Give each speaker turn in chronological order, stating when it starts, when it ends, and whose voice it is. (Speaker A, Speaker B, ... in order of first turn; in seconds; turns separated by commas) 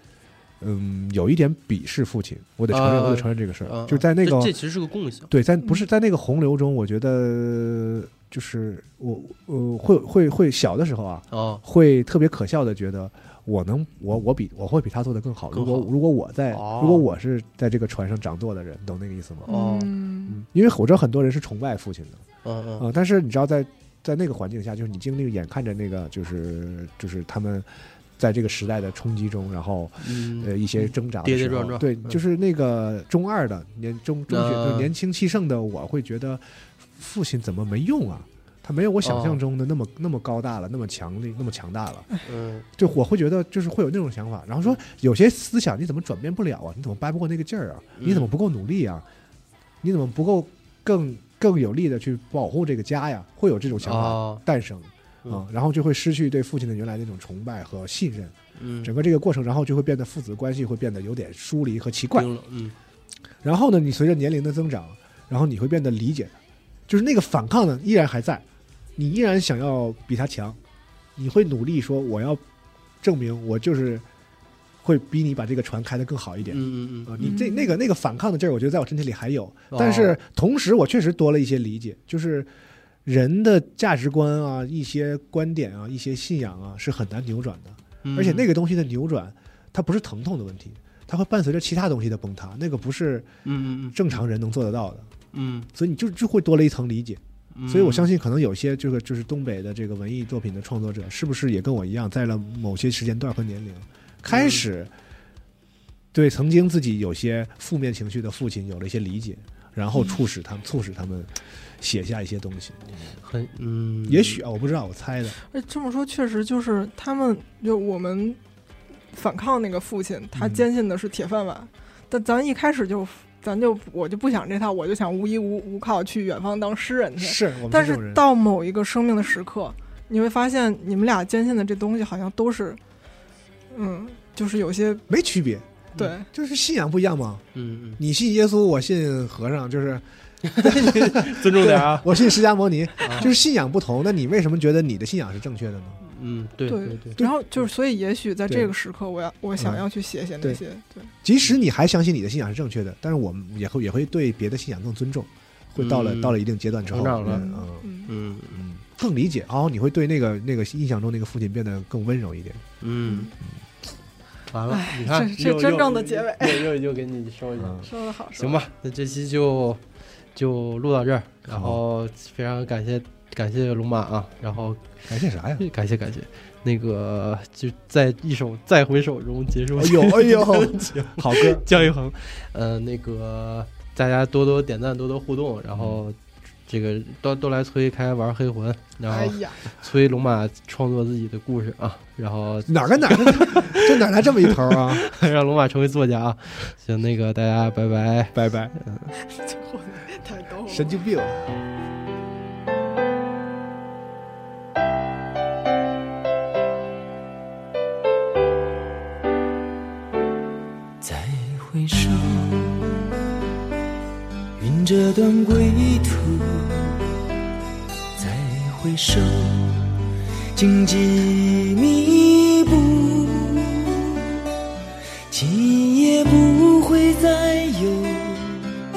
Speaker A: 0.6-4.6, Speaker B: 2.7-5.3, Speaker A: 5.3-19.5, Speaker B: 11.3-11.6, Speaker B: 15.5-15.9, Speaker B: 16.5-17.1, Speaker C: 19.4-20.4, Speaker B: 19.5-19.9, Speaker A: 20.3-22.2, Speaker B: 22.4-22.9, Speaker A: 22.8-42.1, Speaker B: 30.0-32.2, Speaker B: 34.3-34.9, Speaker B: 39.0-39.4, Speaker B: 42.2-42.6, Speaker A: 42.8-49.0, Speaker B: 48.0-48.3, Speaker A: 49.8-62.3, Speaker B: 53.8-54.4, Speaker B: 58.6-58.9, Speaker B: 62.1-62.8, Speaker A: 63.4-66.4, Speaker A: 66.9-68.4, Speaker A: 69.0-70.6, Speaker A: 71.2-72.4, Speaker A: 73.0-74.1, Speaker A: 74.8-82.5, Speaker B: 76.5-77.3, Speaker C: 77.2-77.7, Speaker B: 79.7-80.2, Speaker A: 83.0-93.3, Speaker B: 88.0-88.5, Speaker B: 93.5-94.0, Speaker A: 93.9-95.1, Speaker B: 95.3-95.7, Speaker A: 95.7-104.9, Speaker B: 97.5-98.1, Speaker B: 104.3-104.7, Speaker A: 106.1-113.2, Speaker B: 113.2-114.4, Speaker A: 114.1-115.4, Speaker C: 115.5-118.4, Speaker C: 119.1-132.8, Speaker A: 120.3-120.7, Speaker A: 127.2-128.2, Speaker C: 133.7-135.1, Speaker A: 135.1-137.4, Speaker C: 136.0-136.3, Speaker B: 137.6-138.0, Speaker A: 138.0-146.0, Speaker B: 140.4-142.3, Speaker B: 143.0-143.3, Speaker B: 146.0-147.2, Speaker C: 146.7-151.1, Speaker A: 149.6-149.8, Speaker A: 151.2-157.9, Speaker B: 155.8-157.5, Speaker C: 157.3-158.1, Speaker B: 158.1-158.6, Speaker A: 158.5-162.6, Speaker B: 162.8-163.3, Speaker C: 163.1-163.3, Speaker B: 164.5-169.8, Speaker C: 164.7-166.7, Speaker A: 167.6-167.9, Speaker C: 167.8-168.6, Speaker B: 170.3-175.0, Speaker A: 171.5-171.8, Speaker A: 175.1-175.7, Speaker B: 175.6-186.2, Speaker A: 179.8-181.7, Speaker A: 185.7-186.0, Speaker B: 186.7-199.1, Speaker C: 189.1-189.6, Speaker A: 192.7-195.1, Speaker A: 198.3-198.8, Speaker C: 199.2-201.0, Speaker A: 200.7-201.6, Speaker D: 211.0-212.8, Speaker D: 214.6-217.0, Speaker D: 218.2-219.8, Speaker D: 220.6-224.1, Speaker D: 225.3-228.7